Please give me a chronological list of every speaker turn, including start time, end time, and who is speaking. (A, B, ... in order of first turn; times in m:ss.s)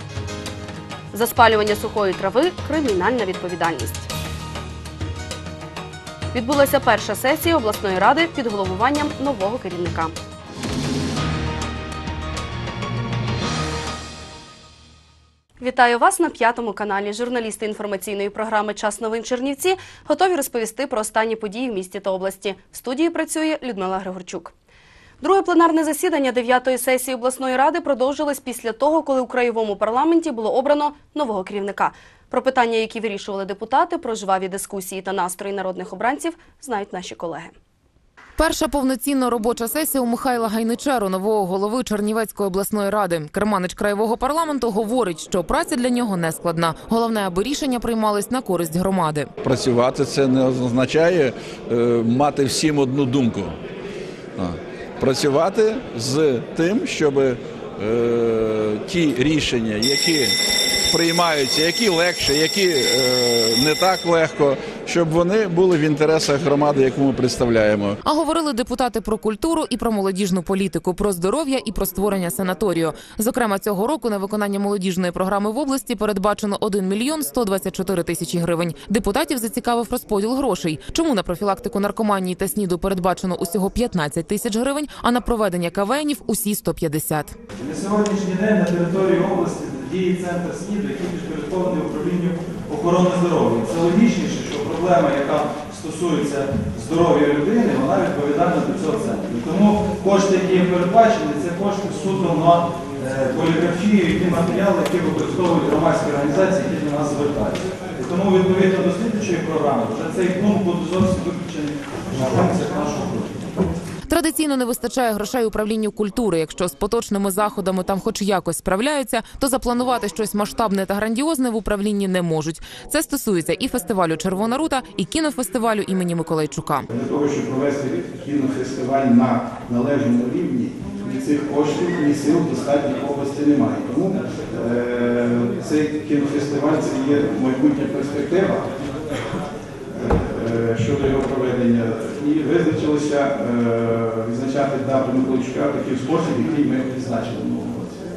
0:01.1-0:04.1 A
0:06.3-0:10.1 A
0:15.6-0:24.5 A
0:25.2-0:37.5 A
0:38.4-0:49.3 B
0:49.4-0:53.5 C
0:54.4-1:00.4 C
1:00.9-1:08.0 C
1:08.0-1:27.4 B
1:27.6-1:53.3 D
1:54.1-2:06.9 B
2:06.9-2:18.7 E
2:19.9-2:27.9 E